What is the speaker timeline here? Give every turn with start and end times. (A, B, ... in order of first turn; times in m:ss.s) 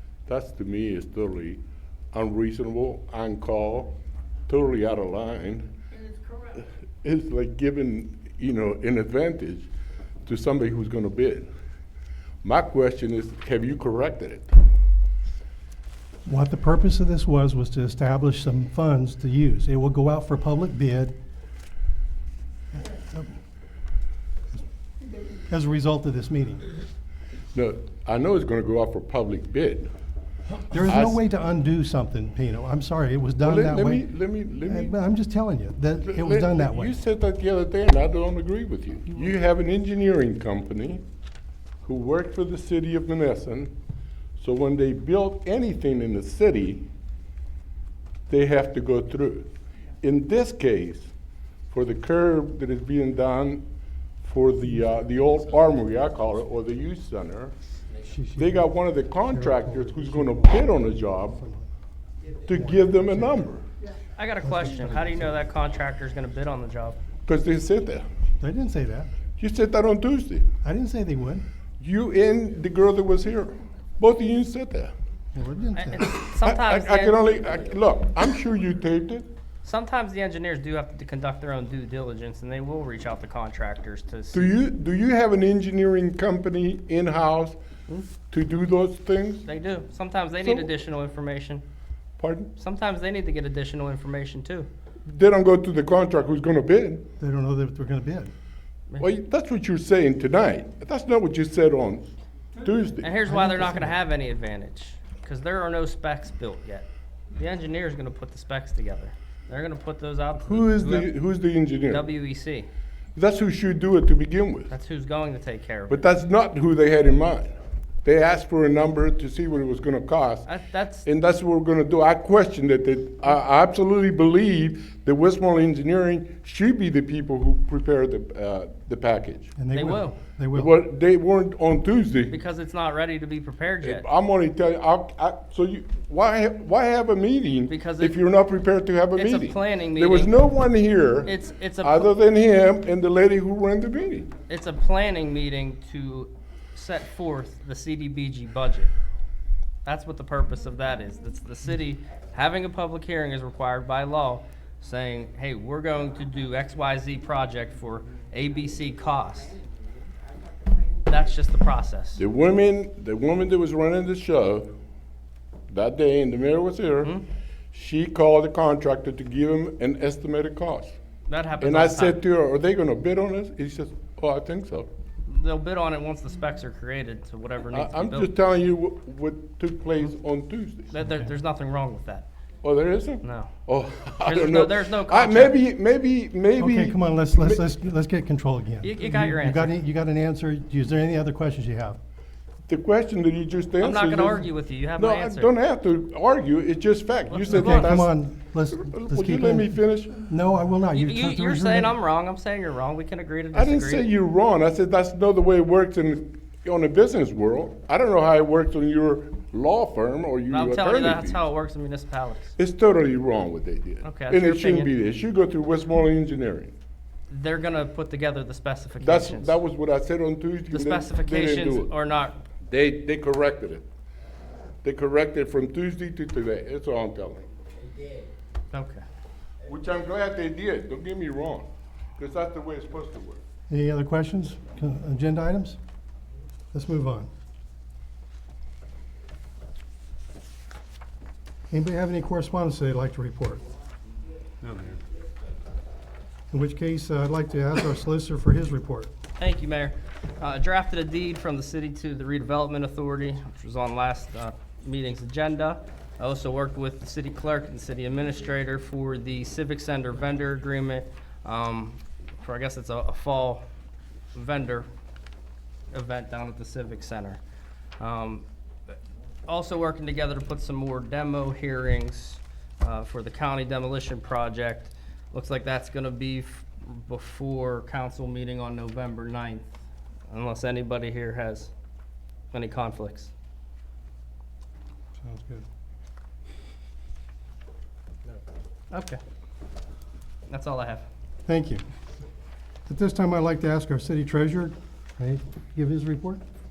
0:00.3-0:01.6 A
0:02.1-0:03.9 A
0:04.5-0:05.7 A
0:06.5-0:09.7 A
0:10.2-0:11.5 A
0:12.4-0:14.5 A
0:16.2-0:21.1 B
0:22.7-0:23.3 B
0:25.5-0:26.7 B
0:27.5-0:29.9 A
0:30.5-0:34.1 B
0:30.8-0:31.2 A
0:33.4-0:34.9 A
0:34.6-0:36.9 B
0:36.0-0:41.0 A
0:41.8-0:43.7 A
0:44.4-0:46.9 A
0:48.3-0:51.1 A
0:51.7-0:53.6 A
0:54.2-0:57.5 A
0:58.1-0:58.7 B
0:58.4-1:01.4 A
0:59.3-1:01.7 B
1:02.4-1:03.6 A
1:02.5-1:03.5 B
1:04.2-1:07.0 C
1:04.4-1:05.3 B
1:07.2-1:08.1 A
1:08.4-1:09.1 B
1:09.4-1:10.5 A
1:10.6-1:11.4 B
1:11.8-1:14.9 A
1:15.3-1:16.1 B
1:15.7-1:17.3 C
1:16.4-1:19.3 A
1:19.6-1:24.5 C
1:24.3-1:27.6 A
1:28.3-1:29.5 A
1:29.4-1:31.6 C
1:30.4-1:30.7 A
1:32.2-1:32.5 A
1:32.6-1:34.7 C
1:35.0-1:37.0 A
1:37.2-1:38.3 B
1:39.0-1:43.1 A
1:43.0-1:51.1 C
1:43.2-1:43.9 B
1:50.4-1:52.0 A
1:51.9-1:52.7 C
1:53.1-1:54.7 A
1:54.7-1:56.0 C
1:55.9-2:00.4 A
2:00.4-2:01.0 C
2:01.0-2:09.5 A
2:09.6-2:10.8 B
2:09.7-2:10.2 C
2:10.5-2:12.4 A
2:12.3-2:14.0 C
2:13.8-2:24.3 A
2:17.7-2:18.2 C
2:19.2-2:20.3 C
2:21.2-2:22.1 C
2:24.5-2:28.9 C
2:29.8-2:39.5 C
2:41.0-2:42.2 C
2:42.2-2:44.7 A
2:45.7-2:47.2 A
2:47.7-2:50.9 A
2:51.3-2:52.2 C
2:51.6-2:54.9 A
2:55.2-2:58.3 C
2:57.7-3:00.9 A
3:00.9-3:02.3 C
3:02.6-3:07.6 A
3:03.2-3:03.5 C
3:04.2-3:05.6 C
3:06.6-3:12.0 B
3:08.8-3:09.7 C
3:12.7-3:14.4 A
3:13.8-3:15.5 C
3:15.0-3:18.1 A
3:17.3-3:18.0 C
3:17.5-3:22.0 B
3:18.7-3:20.2 A
3:20.9-3:24.1 C
3:23.5-3:31.4 A
3:30.5-3:32.5 C
3:32.6-3:36.7 A
3:34.0-3:34.9 C
3:37.3-3:39.6 C
3:39.0-3:41.9 A
3:40.7-3:42.4 C
3:42.6-3:43.8 A
3:44.8-3:47.5 A
3:48.7-3:49.0 C
3:49.6-3:53.4 A
3:53.7-3:55.8 B
3:56.7-3:57.3 B
4:01.7-4:03.6 B
4:06.5-4:09.1 B
4:09.4-4:23.6 C
4:24.3-4:24.9 C
4:25.9-4:27.4 C
4:28.0-4:28.4 C
4:29.5-4:39.7 C
4:40.3-4:41.7 C
4:42.5-4:43.3 C
4:45.2-4:45.6 B
4:48.9-4:49.2 C
4:50.5-4:51.0 C
4:51.4-4:51.8 B
4:52.9-4:56.4 B